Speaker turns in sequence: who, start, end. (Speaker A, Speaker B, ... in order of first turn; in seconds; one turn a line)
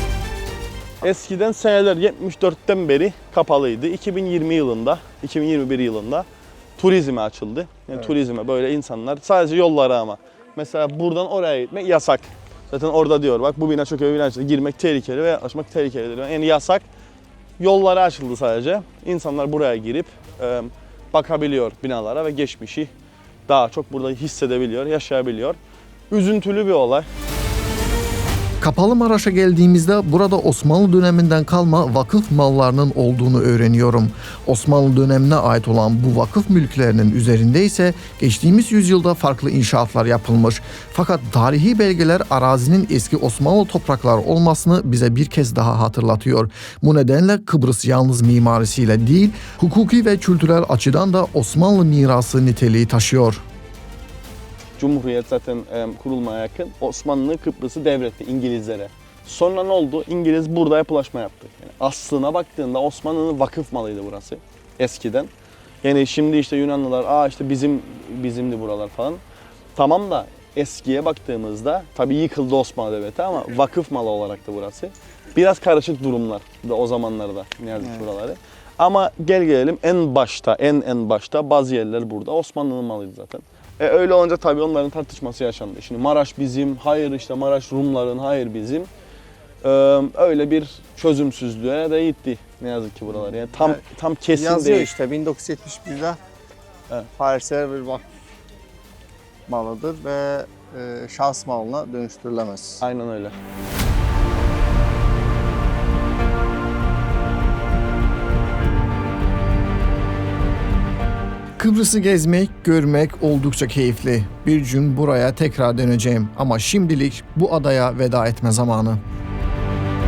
Speaker A: 1.0-6.2
Speaker A: 6.8-16.8
Speaker A: 17.6-22.9
Speaker A: 23.5-25.6
Speaker A: 26.1-27.1
Speaker B: 28.6-53.4
Speaker A: 54.8-65.3
Speaker A: 65.8-69.2
Speaker A: 69.8-88.9
Speaker A: 89.6-94.9
Speaker C: 94.3-96.2
Speaker C: 97.2-98.0
Speaker C: 99.5-102.8
Speaker A: 102.8-103.3
Speaker B: 111.6-119.0